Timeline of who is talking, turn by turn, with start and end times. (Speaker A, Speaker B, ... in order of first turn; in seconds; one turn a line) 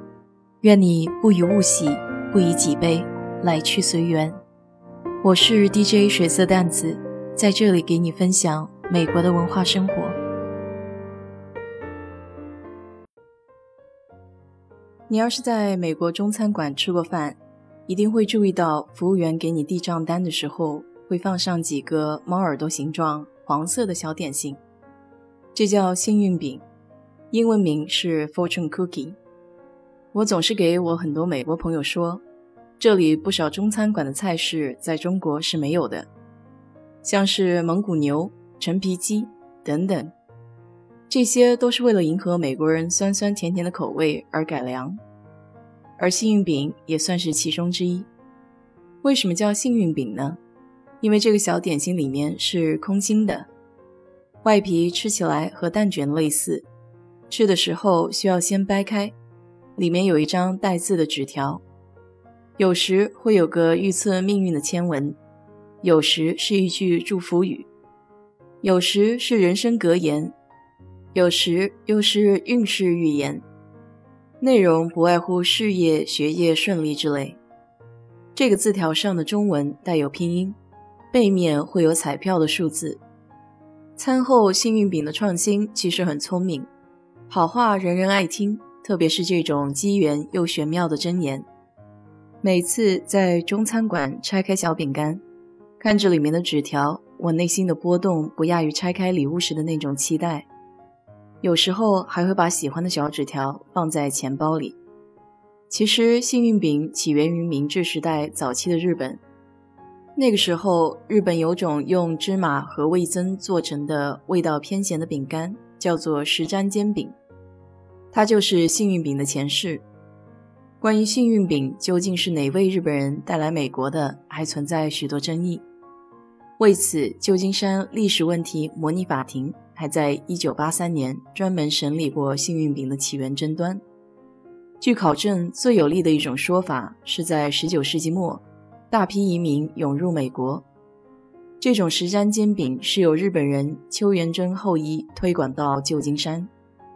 Speaker A: 0.6-4.4
Speaker A: 5.2-10.2
Speaker A: 15.1-24.6
Speaker A: 25.5-26.6
Speaker A: 27.3-29.2
Speaker A: 30.1-32.2
Speaker A: 32.8-36.1
Speaker A: 37.0-40.1
Speaker A: 41.1-45.0
Speaker A: 46.0-48.1
Speaker A: 49.0-50.4
Speaker A: 51.0-53.5
Speaker A: 54.4-56.7
Speaker A: 57.3-59.1
Speaker A: 59.8-61.6
Speaker A: 62.6-65.2
Speaker A: 65.8-67.7
Speaker A: 68.6-70.3
Speaker A: 71.1-73.5
Speaker A: 74.4-77.4
Speaker A: 78.3-80.6
Speaker A: 81.1-83.0
Speaker A: 84.0-86.7
Speaker A: 87.3-91.5
Speaker A: 92.4-95.2
Speaker A: 95.8-100.5
Speaker A: 101.4-104.8
Speaker A: 105.7-109.2
Speaker A: 110.1-117.2
Speaker A: 118.1-119.8
Speaker A: 120.8-125.6
Speaker A: 126.6-133.8
Speaker A: 134.8-140.7
Speaker A: 141.6-146.5